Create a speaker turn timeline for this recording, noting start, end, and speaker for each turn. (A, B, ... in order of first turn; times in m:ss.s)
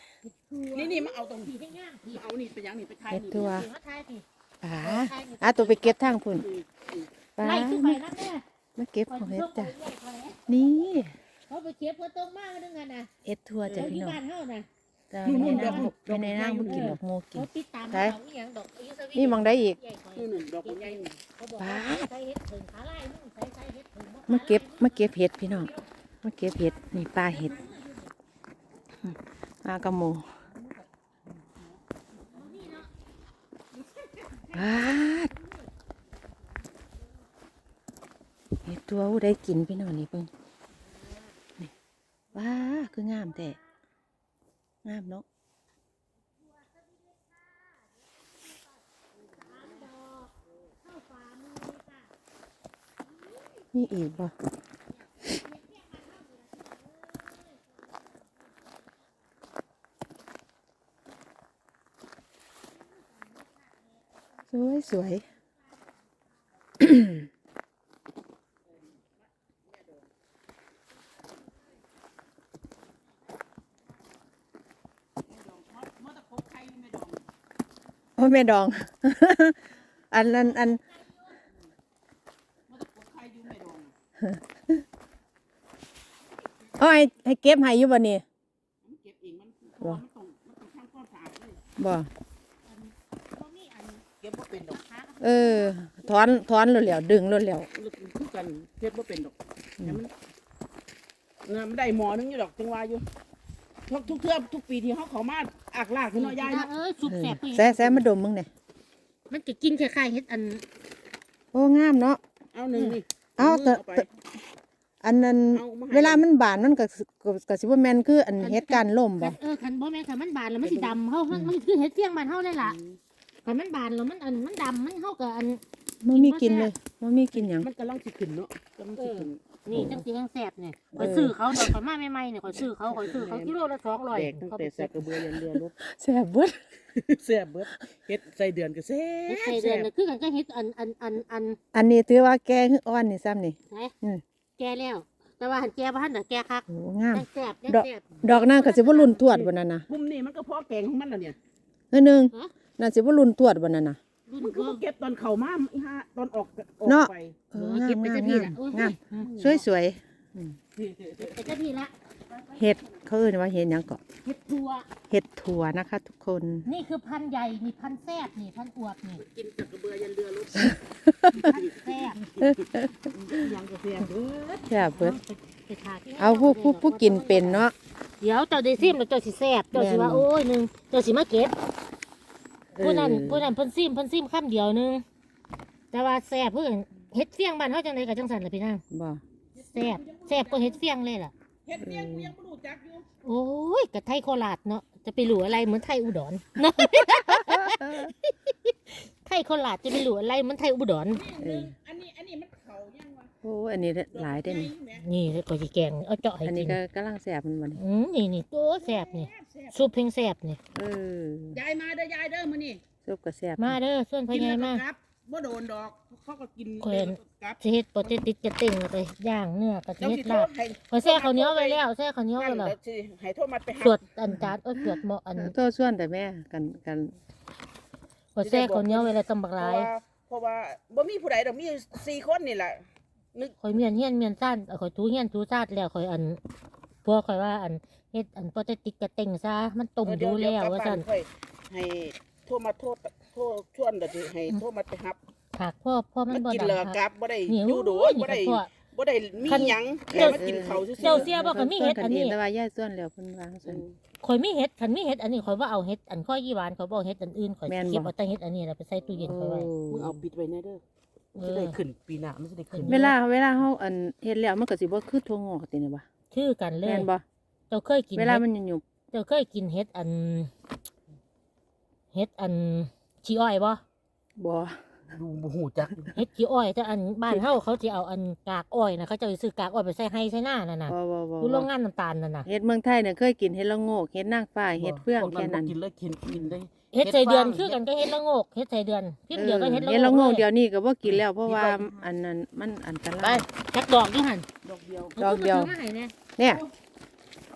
0:00.2-0:02.2 A
0:00.7-0:01.6 B
0:02.1-0:03.6 B
0:03.1-0:03.7 C
0:03.4-0:04.2 A
0:04.6-0:06.5 C
0:04.8-0:06.0 A
0:06.2-0:07.1 B
0:07.4-0:08.0 C
0:07.4-0:08.4 A
0:08.8-0:09.7 C
0:09.1-0:10.5 A
0:10.5-0:11.2 C
0:11.5-0:13.1 A
0:13.2-0:14.2 C
0:13.6-0:13.9 B
0:13.7-0:14.7 A
0:15.1-0:18.2 C
0:15.2-0:17.0 B
0:15.4-0:15.9 A
0:16.7-0:25.0 A
0:19.1-0:19.8 C
0:20.2-0:21.2 B
0:21.6-0:22.1 C
0:24.3-0:25.7 C
0:26.2-0:27.6 C
0:27.1-0:28.0 A
0:27.4-0:27.8 B
0:29.6-0:30.3 C
0:31.4-0:31.8 B
0:32.3-0:32.7 B
0:32.3-0:32.9 A
0:33.7-0:35.4 B
0:34.5-0:35.3 C
0:38.6-0:40.3 C
0:42.3-0:43.6 C
0:42.4-0:43.6 A
0:44.8-0:45.2 C
0:46.4-0:52.1 A
0:53.3-0:54.2 A
0:53.7-0:54.4 C
0:55.2-0:58.8 A
1:03.0-1:03.9 A
1:04.5-1:05.3 C
1:04.6-1:05.2 A
1:06.8-1:07.3 C
1:08.7-1:10.1 B
1:15.3-1:17.2 B
1:18.2-1:19.6 C
1:20.1-1:20.8 C
1:20.3-1:21.2 A
1:22.7-1:23.9 B
1:24.2-1:24.8 C
1:26.8-1:28.2 C
1:28.8-1:31.6 B
1:31.8-1:32.1 C
1:32.7-1:34.1 A
1:34.2-1:34.8 B
1:34.6-1:35.8 A
1:35.2-1:37.7 C
1:37.7-1:40.1 B
1:41.4-1:43.0 B
1:43.9-1:46.7 B
1:46.1-1:48.1 A
1:47.1-1:48.5 C
1:49.3-1:50.6 A
1:51.5-1:52.2 C
1:52.5-1:54.1 B
1:53.4-1:54.0 C
1:55.0-1:59.4 C
1:55.5-1:56.3 B
1:58.4-2:02.8 A
2:00.6-2:01.0 B
2:02.6-2:03.0 B
2:03.4-2:05.6 A
2:06.0-2:07.7 C
2:06.1-2:06.8 A
2:07.4-2:09.4 B
2:09.0-2:15.0 A
2:09.7-2:10.0 C
2:11.0-2:11.7 C
2:12.5-2:15.8 B
2:15.2-2:16.6 C
2:16.9-2:19.9 B
2:19.3-2:21.6 A
2:21.7-2:24.2 C
2:24.6-2:29.3 A
2:26.7-2:29.9 C
2:29.3-2:31.4 B
2:31.9-2:34.0 C
2:34.3-2:34.8 A
2:34.4-2:37.5 B
2:36.8-2:40.6 C
2:37.5-2:39.3 A
2:39.1-2:39.7 B
2:40.8-2:41.5 B
2:41.2-2:41.9 A
2:42.3-2:43.0 B
2:42.6-2:44.0 C
2:44.2-2:44.9 A
2:45.1-2:46.7 C
2:46.6-2:49.2 A
2:49.2-2:54.7 B
2:50.6-2:51.5 C
2:51.3-2:52.2 A
2:52.4-2:52.9 C
2:54.7-2:55.2 C
2:54.9-2:57.7 A
2:56.2-2:57.8 C
2:58.2-3:01.6 A
2:59.7-3:00.3 C
3:02.8-3:03.5 C
3:02.8-3:05.0 A
3:05.9-3:08.8 A
3:08.9-3:09.2 C
3:09.6-3:10.8 B
3:09.6-3:11.3 A
3:11.7-3:13.1 B
3:11.8-3:12.3 C
3:13.2-3:21.2 A
3:16.8-3:18.1 C
3:21.1-3:23.3 B
3:21.4-3:21.7 C
3:23.4-3:24.7 C
3:24.1-3:25.0 B
3:24.9-3:26.8 A
3:26.4-3:27.8 C
3:27.8-3:30.6 A
3:28.8-3:29.9 B
3:30.8-3:31.6 C
3:31.5-3:32.8 B
3:33.0-3:33.8 C
3:33.6-3:34.8 A
3:34.3-3:38.1 B
3:36.8-3:42.8 A
3:40.0-3:41.8 B
3:42.4-3:44.0 B
3:43.8-3:45.5 A
3:44.3-3:47.2 C
3:48.4-3:49.9 A
3:48.4-3:53.6 B
3:53.6-3:56.4 A
3:57.0-4:01.1 A
4:00.0-4:05.2 B
4:05.5-4:08.7 A
4:06.3-4:11.3 B
4:09.4-4:10.4 A
4:10.1-4:13.8 C
4:11.0-4:12.4 A
4:13.6-4:14.0 B
4:14.2-4:19.7 A
4:17.7-4:18.1 C
4:19.2-4:20.2 C
4:19.9-4:20.8 B
4:21.4-4:21.8 A
4:21.4-4:23.0 B
4:22.7-4:23.2 A
4:22.9-4:26.1 C
4:26.3-4:27.1 A
4:26.8-4:27.2 C
4:27.7-4:28.4 A
4:28.2-4:28.8 C
4:29.1-4:30.5 A
4:32.1-4:33.8 A
4:34.4-4:34.8 C
4:35.1-4:36.1 B
4:36.1-4:42.5 A
4:40.9-4:41.7 C
4:42.5-4:45.7 C
4:44.8-4:47.8 B
4:46.3-4:46.6 C
4:46.9-4:50.5 A
4:49.3-4:53.5 C
4:51.0-4:52.0 B
4:53.2-4:53.4 B
4:53.7-4:54.5 A
4:54.6-4:55.2 B
4:55.2-4:56.2 A
4:55.2-4:55.7 C
4:56.4-4:56.6 C
4:56.4-4:56.7 B